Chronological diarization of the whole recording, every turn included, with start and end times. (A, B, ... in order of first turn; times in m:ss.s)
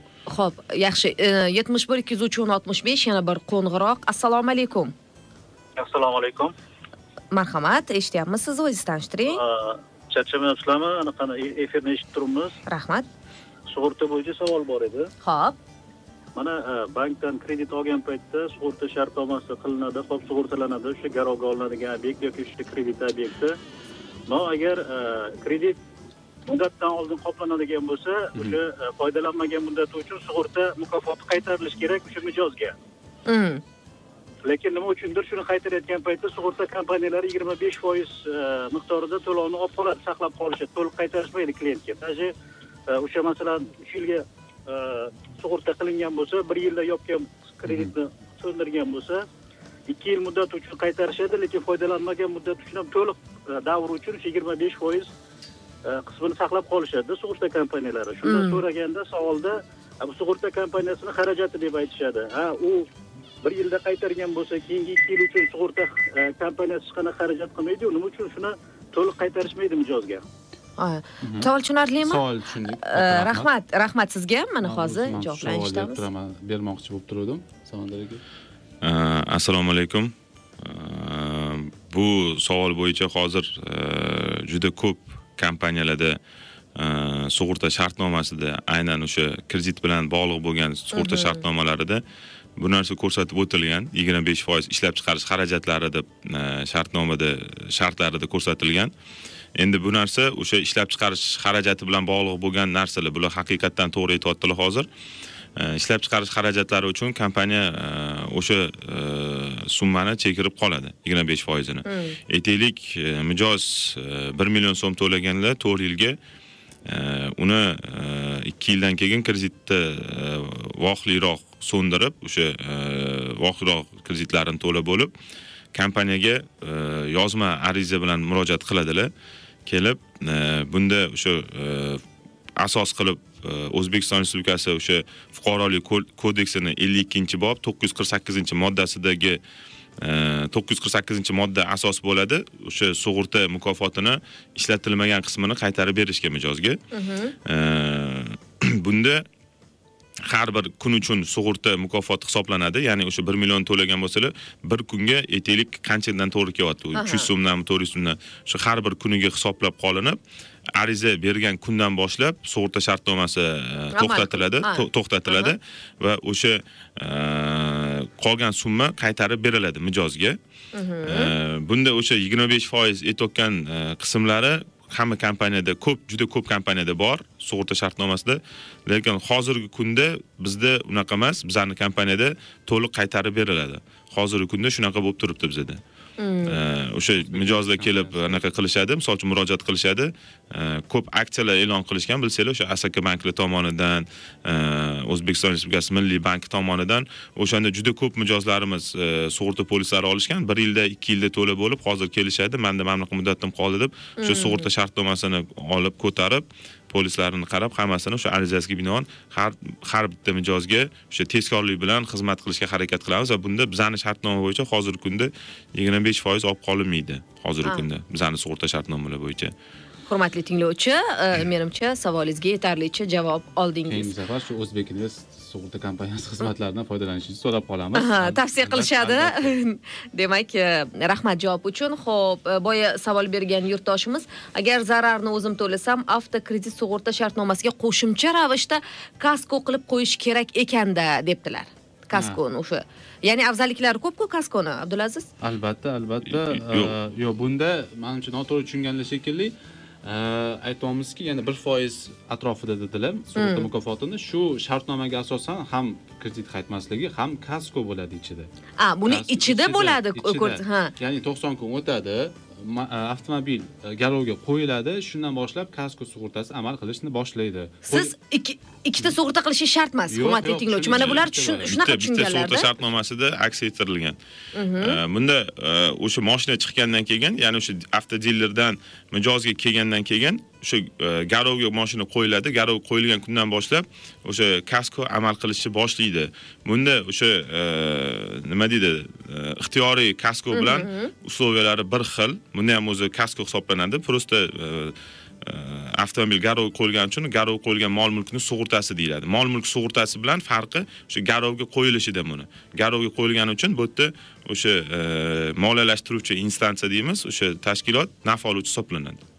0:00.3-0:04.9 A
0:05.8-0:06.5 B
0:07.3-0:09.4 A
0:09.4-0:12.5 B
0:12.7-0:13.1 A
0:13.7-0:15.1 B
0:15.2-0:15.6 A
0:16.4-0:23.5 B
0:24.3-0:25.8 B
0:26.5-0:32.7 B
0:28.3-0:28.6 C
0:33.3-0:33.6 A
0:34.4-0:42.3 B
0:42.9-0:49.2 B
0:47.6-0:47.9 C
0:49.9-0:55.1 B
0:55.9-1:02.9 B
0:58.2-0:58.6 A
1:03.4-1:10.2 B
1:10.8-1:12.2 A
1:11.2-1:13.5 C
1:12.8-1:16.0 A
1:14.6-1:18.2 C
1:18.8-1:26.2 D
1:26.8-1:32.0 D
1:30.9-1:31.4 A
1:32.6-1:38.9 D
1:39.6-1:44.9 D
1:45.6-1:56.2 D
1:51.9-1:52.2 A
1:56.9-2:05.1 D
2:05.7-2:09.1 D
2:09.6-2:12.0 D
2:12.6-2:19.4 D
2:20.0-2:26.8 D
2:26.9-2:27.3 A
2:27.4-2:29.2 D
2:30.2-2:40.2 D
2:37.0-2:37.3 A
2:40.8-2:50.4 D
2:43.9-2:45.5 A
2:50.7-2:51.3 A
2:51.0-3:05.8 D
3:06.2-3:06.6 A
3:06.4-3:39.5 D
3:07.1-3:08.4 C
3:24.2-3:24.7 A
3:40.1-3:44.1 A
3:43.9-3:49.5 C
3:47.9-4:05.3 A
4:02.1-4:02.4 C
4:05.4-4:18.5 C
4:06.3-4:06.9 D
4:13.4-4:13.7 A
4:18.8-4:20.9 A
4:19.0-4:28.1 C
4:27.9-4:32.7 A
4:30.1-4:31.8 C
4:30.9-4:34.2 D
4:34.5-4:35.0 A
4:34.8-5:09.2 D
4:50.5-4:51.1 A